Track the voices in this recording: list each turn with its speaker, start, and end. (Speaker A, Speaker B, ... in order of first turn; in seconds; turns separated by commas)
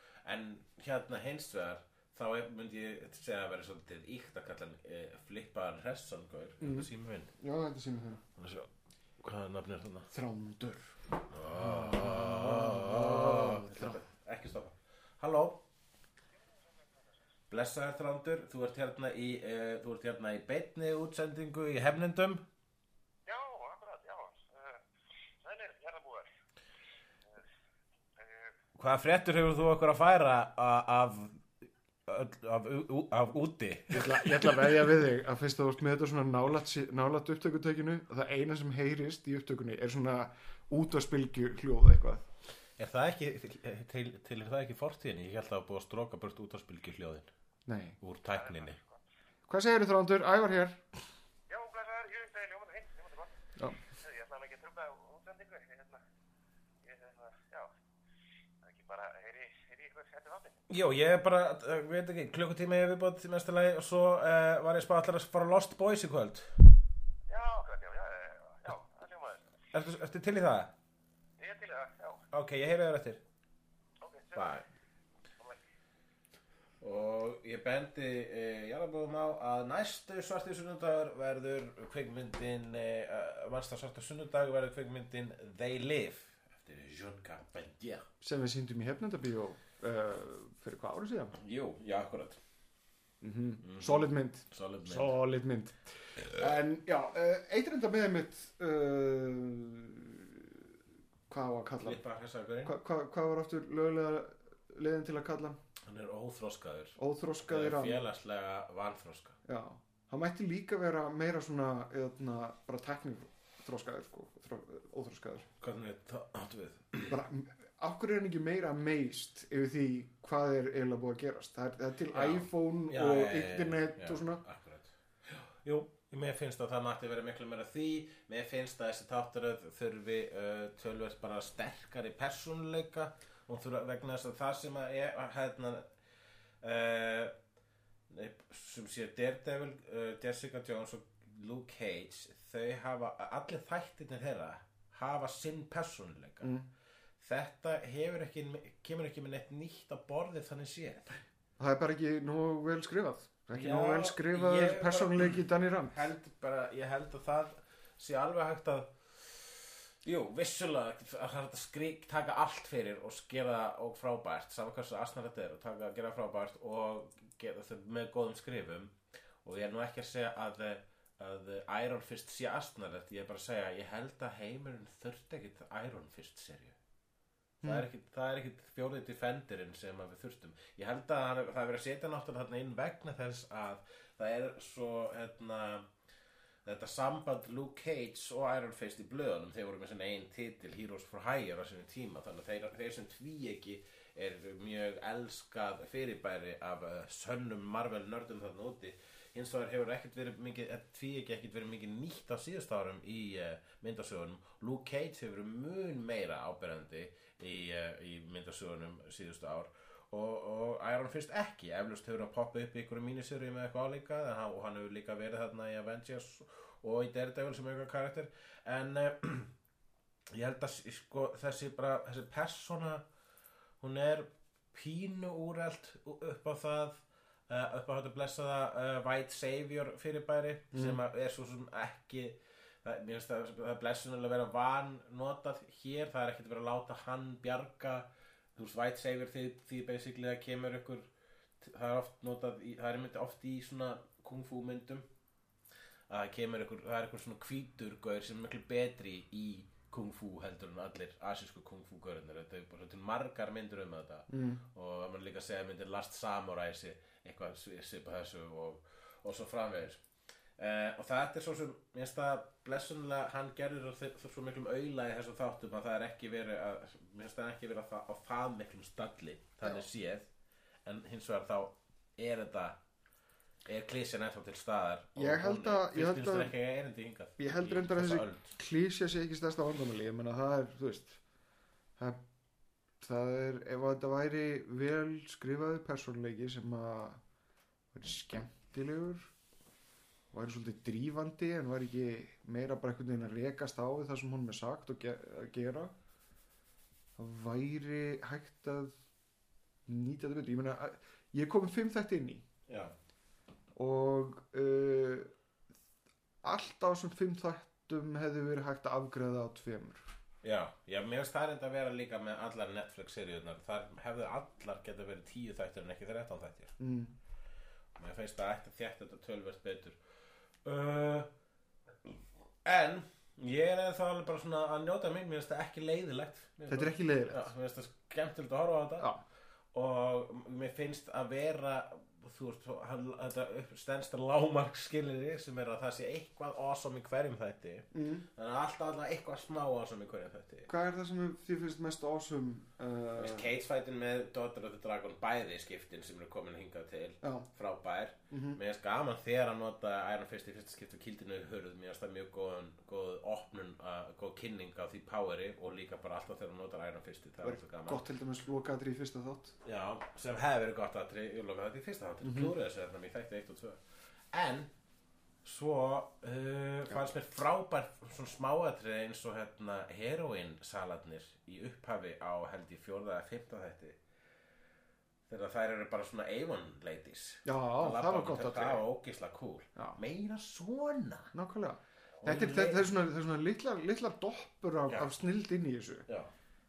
Speaker A: 0.2-7.3, Speaker B: 6.6-8.2, Speaker A: 8.4-8.7, Speaker A: 9.2-10.1, Speaker B: 10.1-11.0, Speaker A: 11.3-15.6, Speaker B: 11.5-14.0, Speaker A: 17.5-22.4, Speaker C: 23.2-24.8, Speaker C: 25.4-26.2, Speaker C: 28.2-28.5, Speaker A: 28.8-31.4, Speaker A: 32.0-34.8, Speaker B: 33.9-42.2, Speaker A: 42.8-47.3, Speaker B: 47.6-48.0, Speaker A: 48.0-48.8, Speaker C: 48.3-49.0, Speaker B: 49.5-50.8, Speaker C: 51.5-53.3, Speaker C: 54.0-56.0, Speaker C: 56.8-57.7, Speaker C: 58.6-60.6, Speaker A: 60.7-66.6, Speaker C: 67.3-69.4, Speaker A: 69.7-70.7, Speaker C: 71.4-72.2, Speaker A: 72.3-73.2, Speaker C: 74.0-74.5, Speaker A: 74.3-74.7, Speaker A: 76.8-88.0, Speaker B: 88.2-91.3, Speaker A: 91.3-92.4, Speaker B: 93.2-100.7, Speaker A: 93.6-95.2, Speaker B: 101.3-102.0, Speaker A: 101.8-102.7, Speaker B: 102.6-105.6, Speaker A: 105.8-109.4, Speaker B: 107.0-108.1, Speaker B: 109.5-115.5, Speaker A: 115.6-117.2, Speaker B: 117.1-124.4, Speaker A: 122.1-135.9, Speaker A: 136.6-137.3, Speaker A: 138.1-146.5, Speaker B: 146.4-146.7, Speaker A: 147.2-151.1, Speaker B: 151.6-156.1, Speaker A: 153.5-155.4, Speaker A: 155.9-176.8, Speaker A: 177.6-185.9, Speaker A: 186.6-219.5, Speaker A: 220.3-223.0, Speaker A: 223.8-241.1, Speaker B: 230.7-231.0, Speaker A: 241.6-245.1, Speaker A: 246.1-260.0, Speaker B: 254.3-254.6, Speaker A: 260.6-270.3, Speaker A: 270.8-272.8, Speaker A: 273.6-278.5, Speaker B: 275.1-276.5, Speaker B: 277.4-281.2, Speaker B: 283.0-287.2, Speaker B: 287.9-289.3, Speaker B: 290.3-295.9, Speaker B: 297.2-298.9, Speaker B: 299.9-302.4, Speaker A: 302.7-302.9, Speaker B: 303.7-305.3, Speaker B: 306.4-310.0, Speaker A: 310.4-316.7, Speaker B: 316.8-317.1, Speaker A: 317.9-320.0, Speaker A: 320.6-321.3, Speaker A: 322.0-329.1, Speaker B: 326.7-327.5, Speaker A: 329.7-340.7, Speaker B: 337.9-338.2, Speaker B: 340.7-343.5, Speaker A: 343.1-358.0, Speaker B: 348.3-348.6, Speaker B: 357.4-359.5, Speaker A: 359.6-363.8, Speaker B: 362.2-362.5, Speaker A: 364.3-364.7, Speaker A: 365.4-374.0, Speaker A: 375.3-381.3, Speaker B: 377.4-378.8, Speaker B: 381.3-386.1, Speaker A: 382.2-382.9